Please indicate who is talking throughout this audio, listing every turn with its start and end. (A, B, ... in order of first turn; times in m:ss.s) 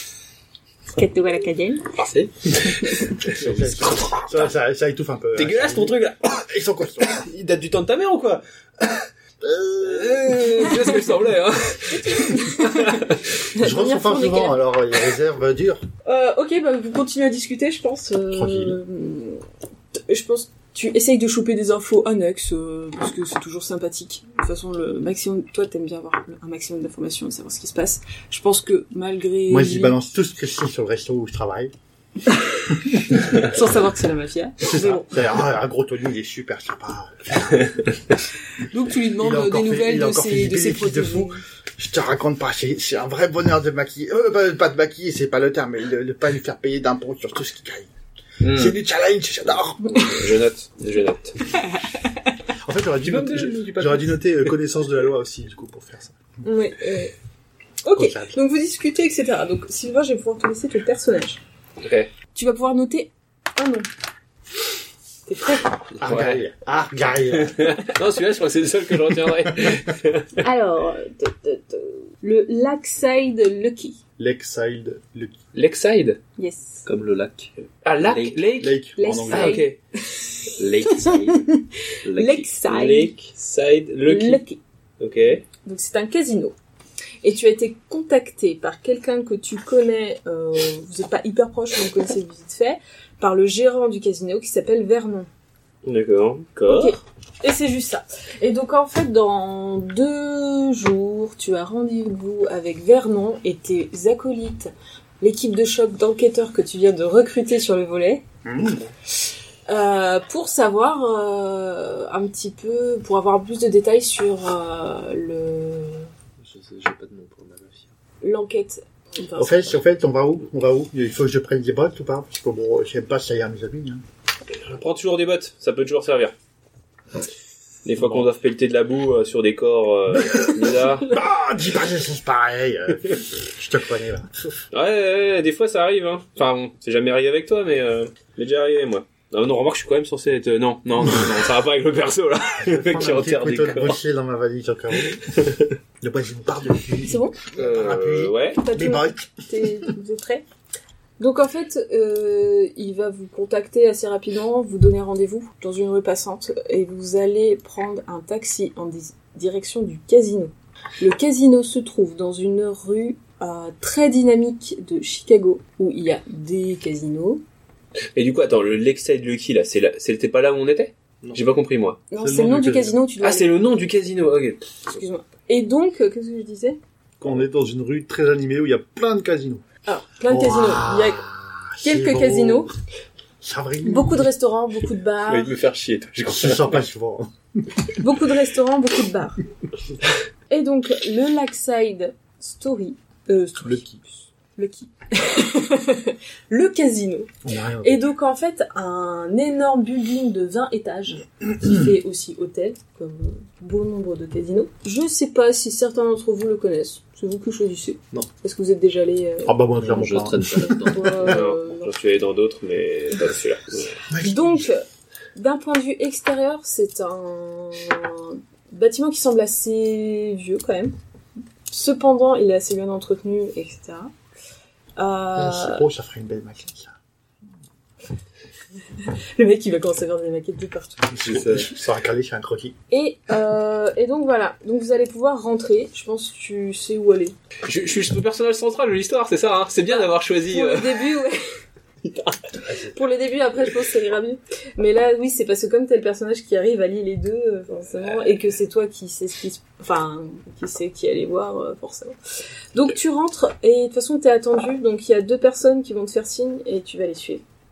0:00.9-0:01.9 A
0:02.0-0:04.5 B
0:03.2-0:07.2 C
0:05.4-0:06.3 B
0:07.0-0:09.0 B
0:09.4-0:10.4 C
0:09.8-0:13.2 B
0:12.0-0:14.6 A
0:13.6-0:15.8 C
0:16.0-0:19.4 A
0:18.3-0:18.8 C
0:20.0-0:30.0 A
0:29.5-0:31.7 C
0:33.0-0:35.2 A
0:34.6-0:37.9 C
0:38.6-0:41.4 A
0:39.2-0:47.9 C
0:48.4-0:48.8 B
0:48.4-0:50.0 C
0:49.8-0:51.4 B
0:52.6-0:56.2 C
0:53.0-0:54.2 B
0:56.4-0:57.1 A
0:57.8-1:01.4 A
0:57.9-0:58.4 C
1:01.8-1:02.1 B
1:02.3-1:03.9 A
1:05.3-1:05.8 A
1:06.0-1:07.8 C
1:06.0-1:06.4 B
1:07.4-1:10.4 B
1:10.4-1:14.0 A
1:14.2-1:15.4 C
1:15.5-1:16.2 B
1:16.4-1:16.8 A
1:16.8-1:18.5 D
1:17.8-1:19.8 B
1:18.6-1:19.6 C
1:19.0-1:23.1 A
1:20.6-1:22.5 D
1:22.7-1:24.4 B
1:24.1-1:24.6 A
1:25.0-1:25.4 B
1:25.6-1:26.6 A
1:27.2-1:35.3 A
1:35.8-1:37.0 B
1:36.7-1:48.2 A
1:48.4-1:48.8 C
1:49.7-1:56.1 A
1:56.4-1:57.9 D
1:58.2-1:59.7 A
1:59.4-2:04.0 C
2:04.6-2:06.3 B
2:07.8-2:11.1 B
2:11.0-2:14.6 C
2:14.7-2:24.0 B
2:22.6-2:25.3 C
2:25.4-2:25.6 B
2:26.0-2:29.3 C
2:27.1-2:27.4 A
2:27.6-2:28.6 B
2:28.6-2:30.4 A
2:31.2-2:47.4 A
2:48.2-2:52.0 B
2:52.1-2:53.5 A
2:52.2-2:53.0 C
2:53.2-2:54.6 B
2:54.9-2:56.8 A
2:57.2-2:59.6 C
2:59.9-3:01.2 A
3:00.3-3:02.7 C
3:01.8-3:02.7 A
3:03.4-3:04.3 C
3:03.8-3:05.5 A
3:05.3-3:06.8 B
3:06.3-3:07.6 C
3:08.0-3:09.4 A
3:10.5-3:14.0 A
3:13.6-3:14.0 C
3:14.6-3:17.3 A
3:17.4-3:18.1 C
3:17.8-3:29.6 A
3:29.4-3:30.9 C
3:29.8-3:31.4 D
3:30.6-3:31.9 A
3:31.2-3:34.0 B
3:34.1-3:34.7 C
3:34.2-3:40.9 A
3:41.7-3:44.1 A
3:45.0-3:45.9 A
3:45.4-3:47.0 C
3:49.0-3:51.4 A
3:51.1-3:52.8 C
3:51.2-3:51.7 D
3:52.9-3:57.4 A
3:57.7-4:01.0 B
3:59.9-4:01.4 A
4:02.0-4:02.4 B
4:02.9-4:12.2 A
4:12.7-4:17.4 A